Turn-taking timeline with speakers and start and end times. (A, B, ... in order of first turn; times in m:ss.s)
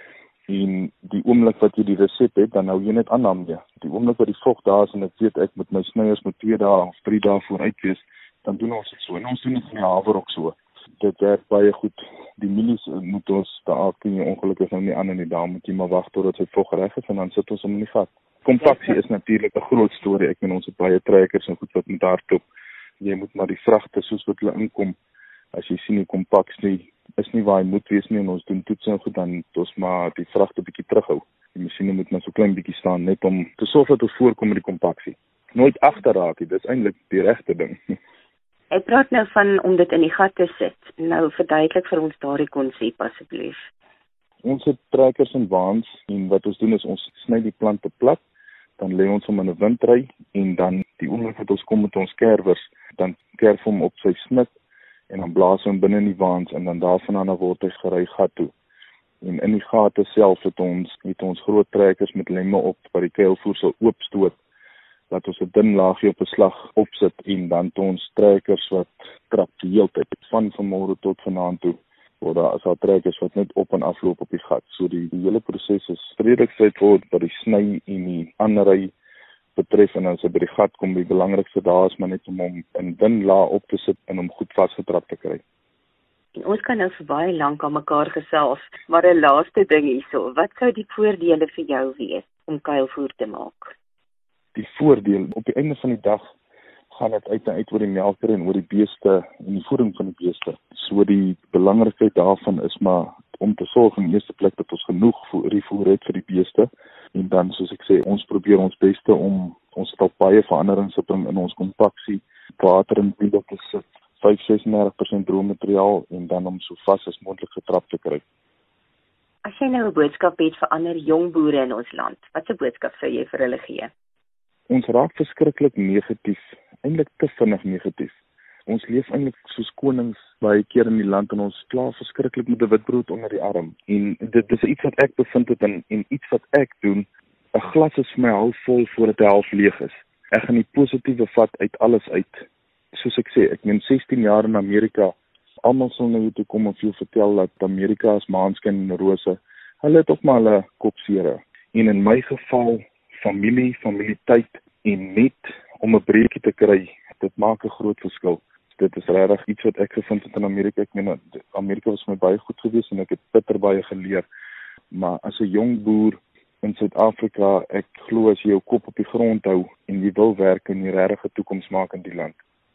0:00.5-0:22.4 A
0:23.0-0:25.0 A
0:25.5-0:38.0 A
0:38.7-0:43.6 B
0:44.4-0:48.2 A
0:48.8-0:54.5 A
0:55.1-0:58.5 A
0:59.2-1:04.4 A
1:05.1-1:18.9 A
1:19.6-1:25.4 A
1:26.3-1:33.7 B
1:34.5-1:36.3 A
1:36.9-1:58.2 A
1:59.4-2:03.9 B
2:04.7-2:08.1 A
2:08.7-2:44.2 A
2:44.9-2:52.4 A